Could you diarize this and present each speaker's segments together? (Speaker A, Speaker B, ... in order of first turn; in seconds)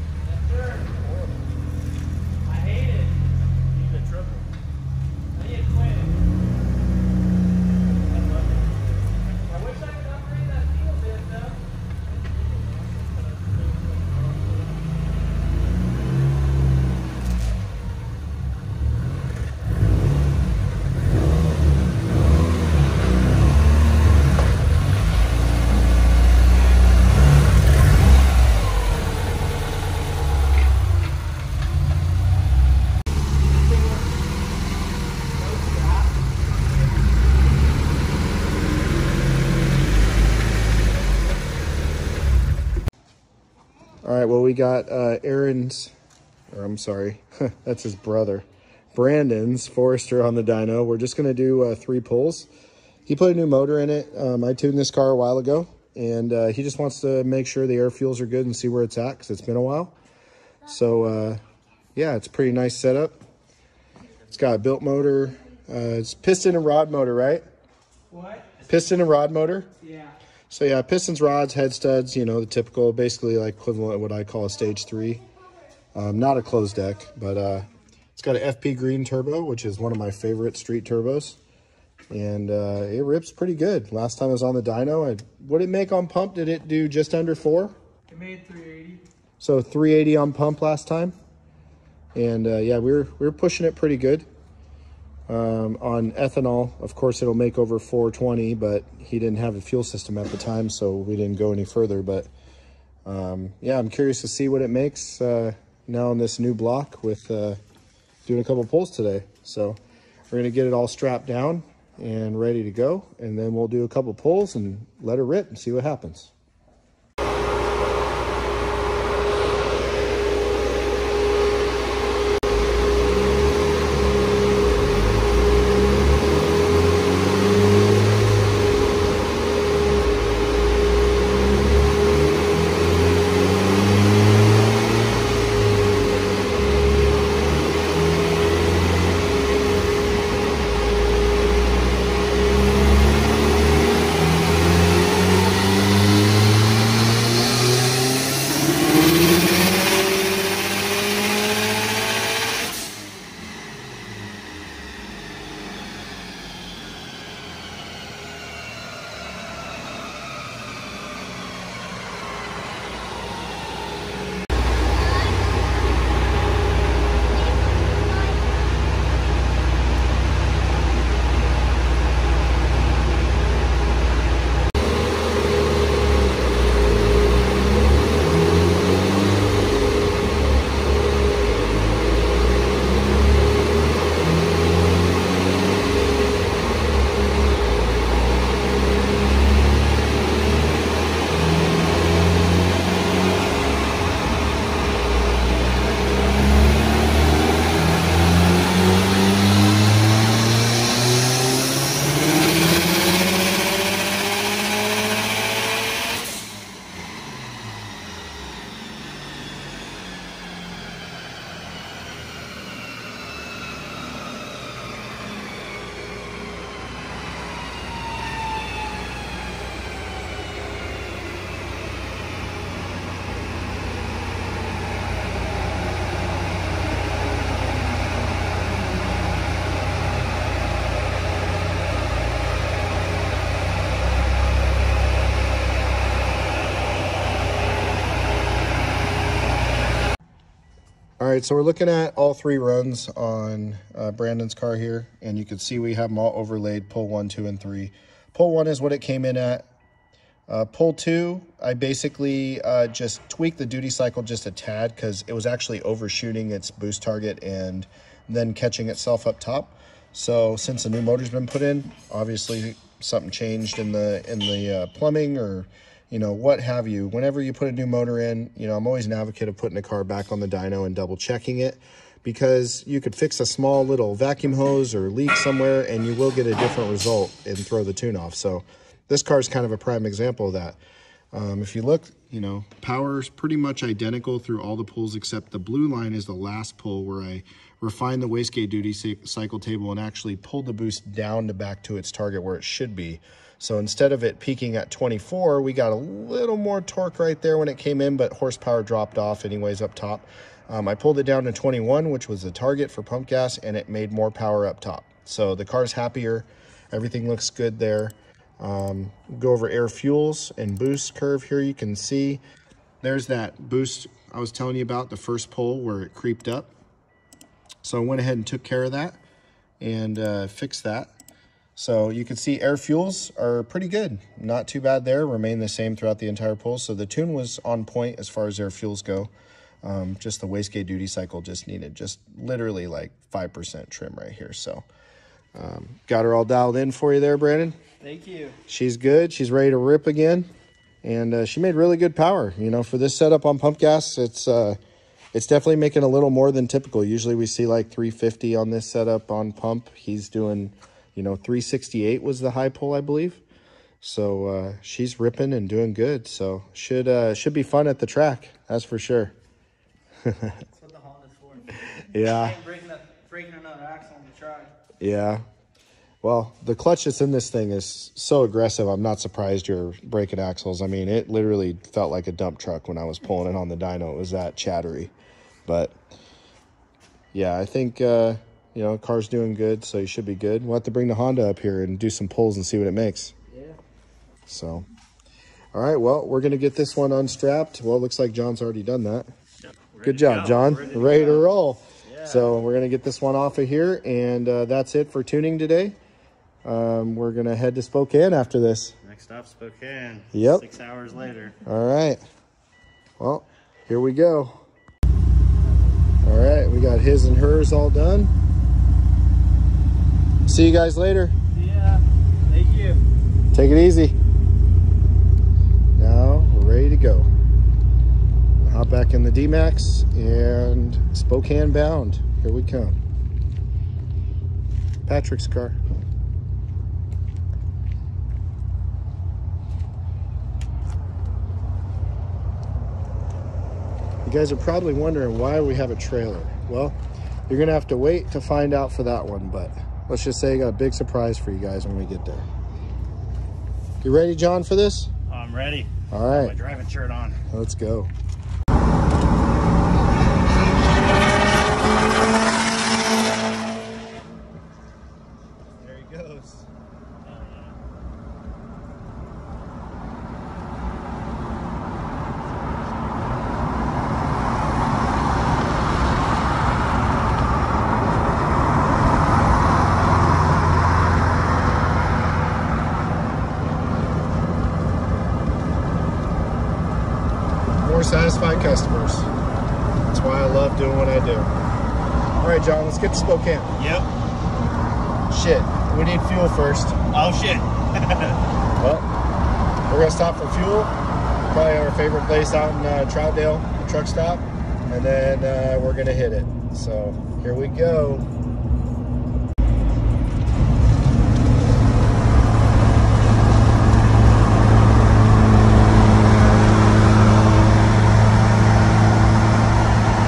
Speaker A: 0.2-1.4, 2.4-3.3, 5.3-6.3, 9.4-13.8, 33.5-33.9, 35.5-35.8, 88.1-88.7, 338.0-338.6, 360.8-361.6, 362.3-364.7, 411.5-413.0
Speaker B: 3.7-4.5, 8.2-9.0, 13.2-14.6, 88.4-88.9, 389.6-391.5, 392.0-392.5, 399.0-401.6, 445.3-447.4, 455.8-456.6, 457.2-457.8, 462.5-463.4, 483.8-484.1, 487.1-488.4
Speaker C: 44.0-45.9, 46.5-52.5, 53.1-59.9, 60.6-61.4, 61.9-63.2, 64.3-67.4, 68.6-69.7, 70.5-75.2, 75.9-81.4, 82.1-87.7, 89.4-91.1, 92.1-94.2, 95.3-102.3, 103.0-107.6, 108.2-109.8, 110.3-116.3, 241.2-249.7, 250.5-280.8, 281.3-312.4, 313.0-316.7, 317.8-319.2, 319.8-321.1, 321.8-329.3, 329.8-334.9, 335.5-337.8, 338.7-340.5, 341.0-344.8, 345.3-353.4, 354.0-359.3, 360.2-360.6, 361.8-362.6, 365.0-365.4, 366.2-375.1, 375.6-376.0, 377.3-383.3, 384.5-384.8, 385.7-389.3, 390.0-396.0, 396.6-398.9, 400.3-400.6, 401.6-402.2, 403.2-404.5, 406.2-408.3, 410.5-411.3, 413.5-414.2, 415.9-417.3, 418.6-423.0, 425.1-425.8, 434.2-437.0, 437.5-442.5, 444.0-445.1, 446.1-446.5, 447.5-448.1, 477.8-479.3, 480.1-481.5, 482.4-483.7, 485.3-487.0, 488.8-489.1, 489.9-490.9, 491.5-498.3